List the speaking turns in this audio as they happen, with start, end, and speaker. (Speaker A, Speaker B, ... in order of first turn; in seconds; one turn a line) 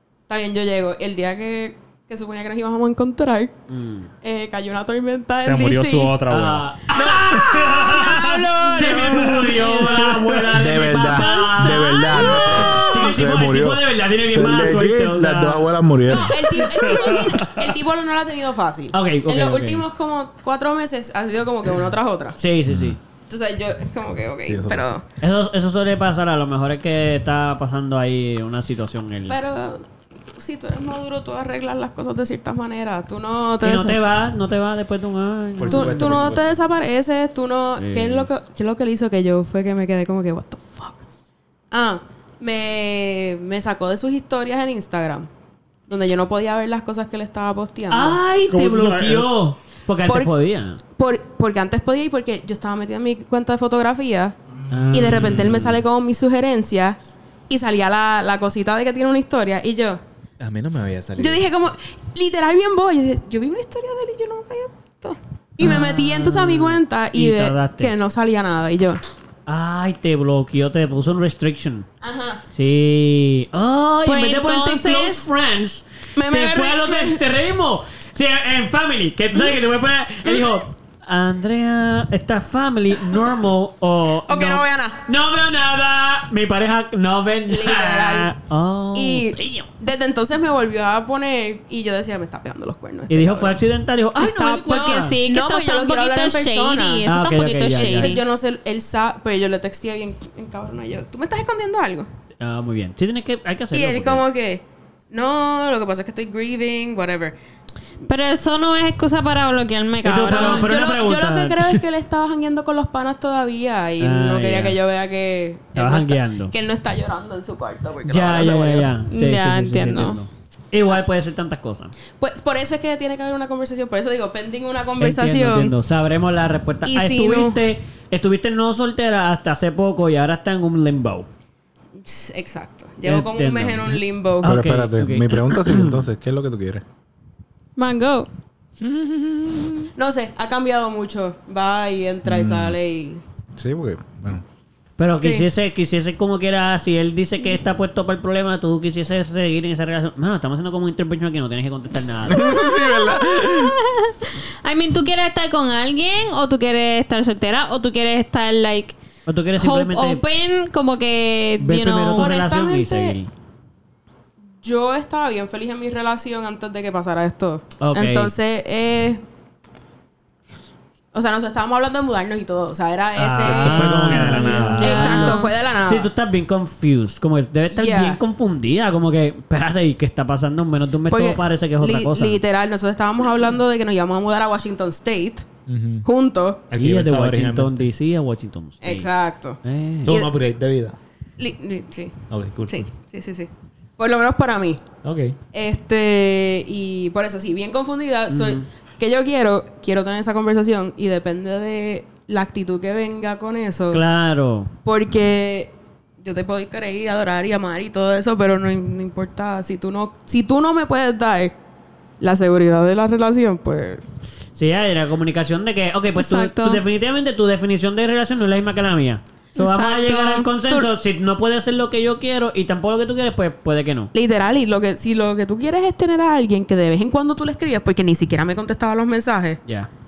Speaker A: 0.3-3.5
Speaker B: 3.7-4.1
Speaker A: 4.2-6.2
Speaker C: 5.4-6.8
Speaker B: 6.3-15.7
Speaker A: 6.9-10.4
Speaker D: 10.5-16.7
Speaker E: 11.0-12.9
Speaker A: 12.3-12.9
Speaker A: 16.1-22.4
Speaker B: 18.9-19.9
Speaker B: 22.4-23.0
Speaker D: 22.7-23.0
Speaker A: 23.3-25.0
Speaker D: 24.5-24.9
Speaker B: 25.2-29.4
Speaker A: 29.3-34.0
Speaker B: 33.6-36.4
Speaker C: 35.6-36.6
Speaker A: 35.7-41.0
Speaker B: 37.8-38.3
Speaker A: 41.7-45.3
Speaker A: 45.9-48.2
Speaker B: 47.9-50.8
Speaker C: 48.5-49.3
Speaker A: 50.1-50.3
Speaker A: 50.9-54.4
Speaker B: 54.7-55.8
Speaker A: 54.9-57.0
Speaker A: 57.5-60.0
Speaker C: 60.4-61.4
Speaker A: 61.2-69.0
Speaker B: 65.6-68.0
Speaker B: 69.5-71.9
Speaker A: 72.0-72.4
Speaker B: 72.5-89.7
Speaker E: 74.0-75.2
Speaker A: 76.2-77.2
Speaker A: 84.3-85.0
Speaker A: 87.5-88.4
Speaker A: 88.9-93.6
Speaker B: 93.1-95.2
Speaker E: 94.2-98.3
Speaker A: 94.5-97.0
Speaker B: 97.1-98.2
Speaker A: 97.7-102.1
Speaker B: 102.4-104.2
Speaker A: 103.7-107.3
Speaker E: 108.1-110.8
Speaker B: 110.0-111.8
Speaker A: 110.2-118.9
Speaker B: 114.0-114.8
Speaker B: 115.8-116.5
Speaker B: 118.0-121.9
Speaker E: 119.1-120.2
Speaker A: 122.2-125.8
Speaker B: 125.0-131.3
Speaker A: 126.8-127.6
Speaker A: 132.0-134.6
Speaker B: 133.0-136.0
Speaker D: 134.4-136.8
Speaker E: 137.8-138.3
Speaker C: 138.8-139.7
Speaker A: 139.9-143.2
Speaker D: 142.2-142.8
Speaker D: 143.6-144.4
Speaker B: 145.0-152.4
Speaker A: 145.2-145.5
Speaker D: 152.3-153.8
Speaker E: 152.3-159.0
Speaker B: 159.3-160.2
Speaker E: 159.6-162.4
Speaker B: 161.6-163.3
Speaker A: 162.2-163.2
Speaker A: 164.6-169.2
Speaker B: 167.8-168.3
Speaker A: 171.1-176.1
Speaker B: 173.2-182.4
Speaker C: 173.3-175.2
Speaker E: 174.8-175.5
Speaker A: 177.7-178.2
Speaker A: 181.1-185.5
Speaker C: 185.7-186.1
Speaker A: 186.0-186.7
Speaker C: 186.7-187.9
Speaker B: 186.7-189.1
Speaker A: 188.8-190.4
Speaker B: 189.6-190.2
Speaker C: 190.0-191.0
Speaker A: 191.4-194.8
Speaker C: 192.3-192.9
Speaker C: 195.0-195.4
Speaker A: 195.5-204.0
Speaker B: 198.3-198.7
Speaker B: 203.9-204.7
Speaker A: 204.8-211.6
Speaker A: 212.2-214.0
Speaker B: 214.6-224.1
Speaker E: 216.2-216.8
Speaker E: 219.6-220.5
Speaker A: 224.1-229.6